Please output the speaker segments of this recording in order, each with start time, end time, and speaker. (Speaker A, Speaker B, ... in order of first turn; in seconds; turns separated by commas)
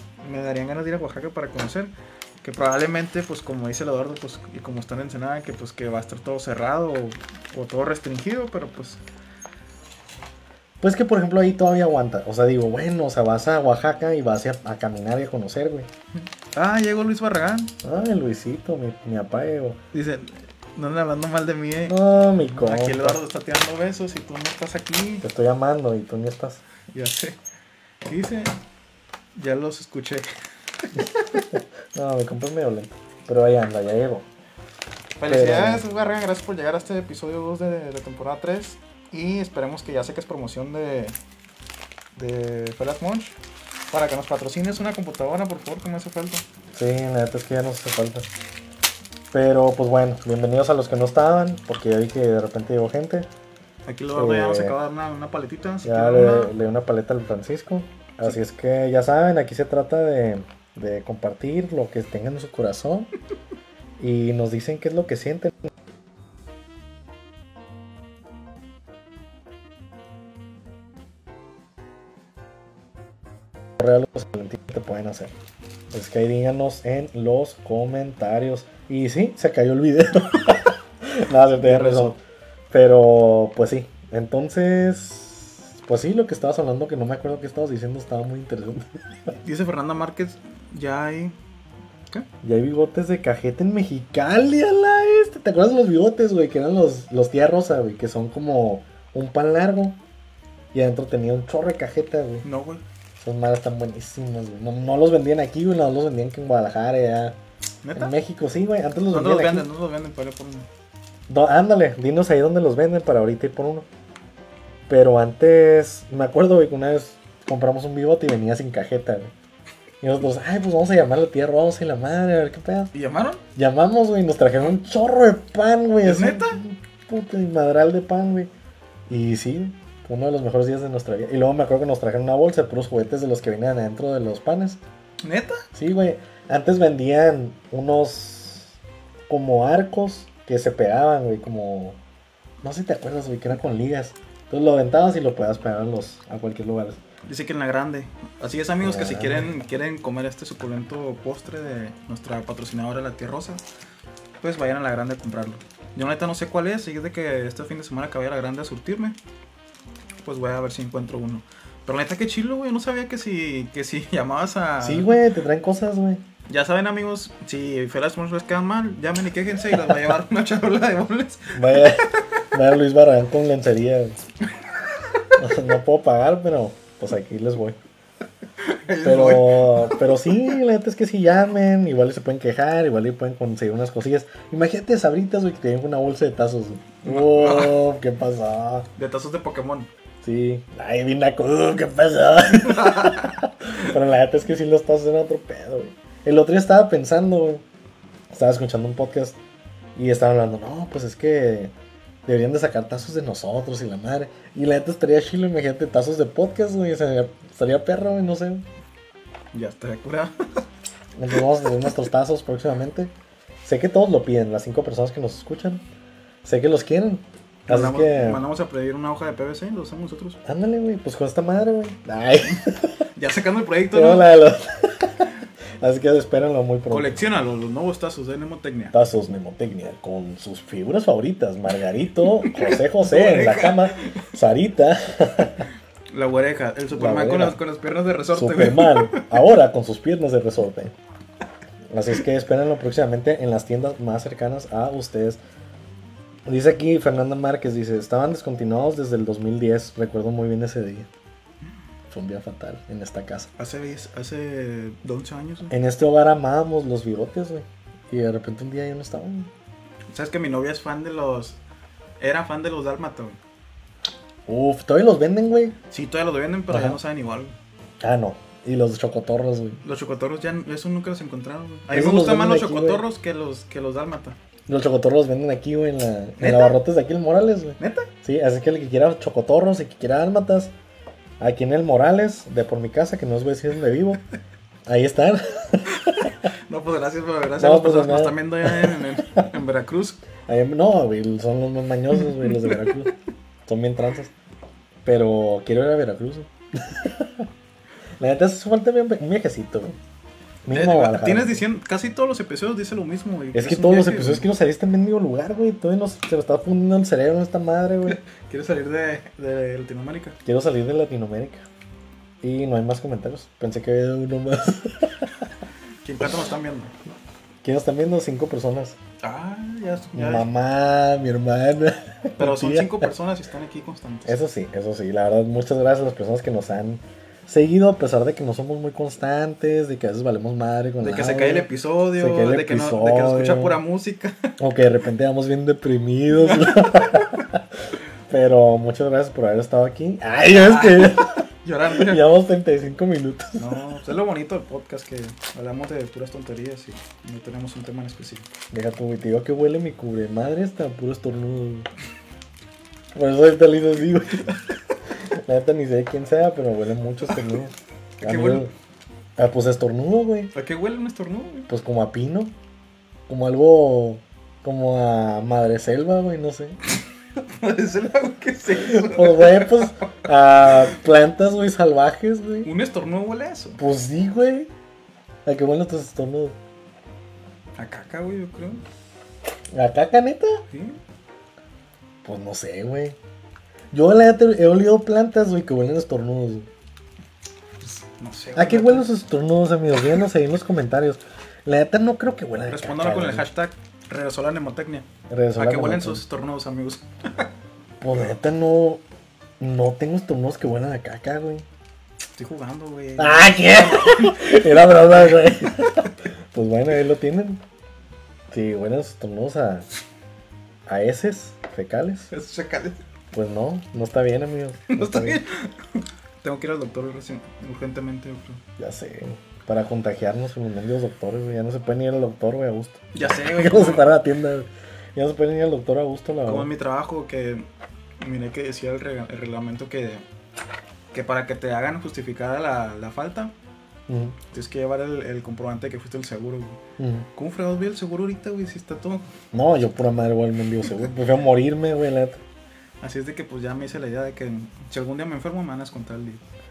Speaker A: 0.2-9.0, Speaker B: 10.8-15.9, Speaker A: 16.1-17.7, Speaker B: 17.8-19.8, Speaker A: 19.9-25.2, Speaker B: 21.9-23.2, Speaker B: 25.2-26.6, Speaker A: 26.9-27.4, Speaker A: 28.0-28.6, Speaker A: 29.3-30.3, Speaker A: 30.8-31.5, Speaker B: 31.5-34.2, Speaker A: 35.2-41.1, Speaker B: 35.2-35.8, Speaker A: 42.1-43.4, Speaker A: 43.9-46.4, Speaker B: 46.7-48.3, Speaker B: 49.3-53.3, Speaker A: 53.9-56.5, Speaker B: 54.1-54.8, Speaker B: 55.8-63.1, Speaker B: 64.0-65.7, Speaker B: 73.8-75.3, Speaker B: 75.9-82.2, Speaker A: 81.6-82.2, Speaker B: 82.7-89.1, Speaker A: 89.3-91.3, Speaker B: 92.4-100.0, Speaker B: 100.7-102.5, Speaker A: 102.4-102.8, Speaker B: 103.2-107.4, Speaker A: 107.8-108.1, Speaker B: 107.9-109.7, Speaker A: 109.1-110.7, Speaker B: 111.3-113.8, Speaker B: 114.9-119.3, Speaker B: 120.0-122.9, Speaker A: 122.9-123.4, Speaker B: 123.5-128.5, Speaker A: 126.0-126.6, Speaker B: 129.1-134.8, Speaker A: 135.2-135.6, Speaker B: 135.7-138.8, Speaker B: 139.3-142.0, Speaker B: 142.6-147.0, Speaker A: 147.2-153.6, Speaker B: 148.8-149.5, Speaker A: 154.4-159.2, Speaker A: 160.2-165.2, Speaker B: 164.8-166.2, Speaker A: 166.5-171.9, Speaker B: 171.5-174.2, Speaker B: 175.4-177.8, Speaker A: 178.6-180.4, Speaker B: 179.0-188.9, Speaker A: 187.0-187.8, Speaker A: 188.9-189.9, Speaker B: 190.2-197.6, Speaker A: 192.7-193.3, Speaker B: 198.3-199.4, Speaker B: 199.9-201.7, Speaker B: 202.2-208.6, Speaker A: 209.5-210.3, Speaker B: 211.2-213.1, Speaker B: 213.6-215.8, Speaker B: 216.4-218.4, Speaker A: 217.7-220.4, Speaker B: 220.4-223.0, Speaker A: 223.1-224.3, Speaker B: 223.9-225.2, Speaker B: 225.8-227.2, Speaker A: 226.9-228.9, Speaker B: 228.9-235.7, Speaker A: 232.4-234.3, Speaker A: 236.1-239.5, Speaker B: 236.9-237.6, Speaker B: 238.3-240.9, Speaker B: 241.9-245.4, Speaker B: 246.4-251.1, Speaker B: 252.1-253.5, Speaker A: 253.6-255.7, Speaker B: 255.7-259.5, Speaker A: 260.1-261.6, Speaker A: 262.2-263.4, Speaker B: 264.5-265.8, Speaker A: 265.9-267.5, Speaker B: 266.7-267.0, Speaker B: 268.0-269.8, Speaker A: 269.8-274.4, Speaker B: 271.9-273.0, Speaker B: 274.7-280.7, Speaker A: 276.4-276.8, Speaker A: 277.8-278.1, Speaker B: 281.4-284.2, Speaker B: 284.9-286.3, Speaker A: 286.0-290.2, Speaker B: 287.6-289.4, Speaker B: 290.5-293.1, Speaker A: 292.4-292.9, Speaker B: 293.6-294.3, Speaker B: 295.0-297.4, Speaker B: 298.2-300.0, Speaker B: 300.6-301.6, Speaker A: 300.7-304.5, Speaker B: 303.5-308.2, Speaker A: 308.1-310.4, Speaker B: 310.4-311.6, Speaker B: 312.4-315.5, Speaker A: 316.0-316.9, Speaker B: 317.6-319.0, Speaker A: 319.2-320.5, Speaker B: 320.1-323.1, Speaker A: 322.4-324.4, Speaker B: 324.3-333.8, Speaker A: 331.0-334.5, Speaker B: 334.6-337.6, Speaker A: 336.4-337.1, Speaker B: 338.3-341.3, Speaker A: 340.5-342.3, Speaker B: 341.9-343.6, Speaker A: 343.6-348.5, Speaker B: 348.7-351.9, Speaker B: 353.1-354.6, Speaker B: 355.2-358.7, Speaker A: 358.2-358.7, Speaker B: 359.4-360.5, Speaker A: 360.5-361.7, Speaker B: 361.7-362.5, Speaker B: 363.3-366.8, Speaker A: 367.4-370.1, Speaker B: 368.8-372.7, Speaker A: 372.6-373.8, Speaker B: 373.8-374.7, Speaker B: 375.4-376.6, Speaker A: 377.8-378.8, Speaker B: 379.7-380.6, Speaker A: 380.7-381.0, Speaker B: 382.2-383.2, Speaker B: 383.9-386.7, Speaker A: 387.8-389.1, Speaker B: 388.5-393.4, Speaker A: 392.7-397.5, Speaker B: 395.3-396.2, Speaker B: 398.0-399.0, Speaker B: 399.6-401.6, Speaker A: 402.4-406.1, Speaker B: 403.2-407.6, Speaker B: 408.5-409.9, Speaker B: 410.9-412.3, Speaker A: 412.3-413.0, Speaker B: 413.3-415.4, Speaker A: 414.9-418.6, Speaker B: 418.8-426.7, Speaker A: 423.1-424.2, Speaker A: 426.4-427.7, Speaker A: 428.2-430.2, Speaker A: 431.1-433.5, Speaker B: 434.1-434.4, Speaker A: 434.5-436.8, Speaker B: 437.0-437.3, Speaker A: 437.3-439.2, Speaker B: 439.5-442.4, Speaker A: 443.0-446.4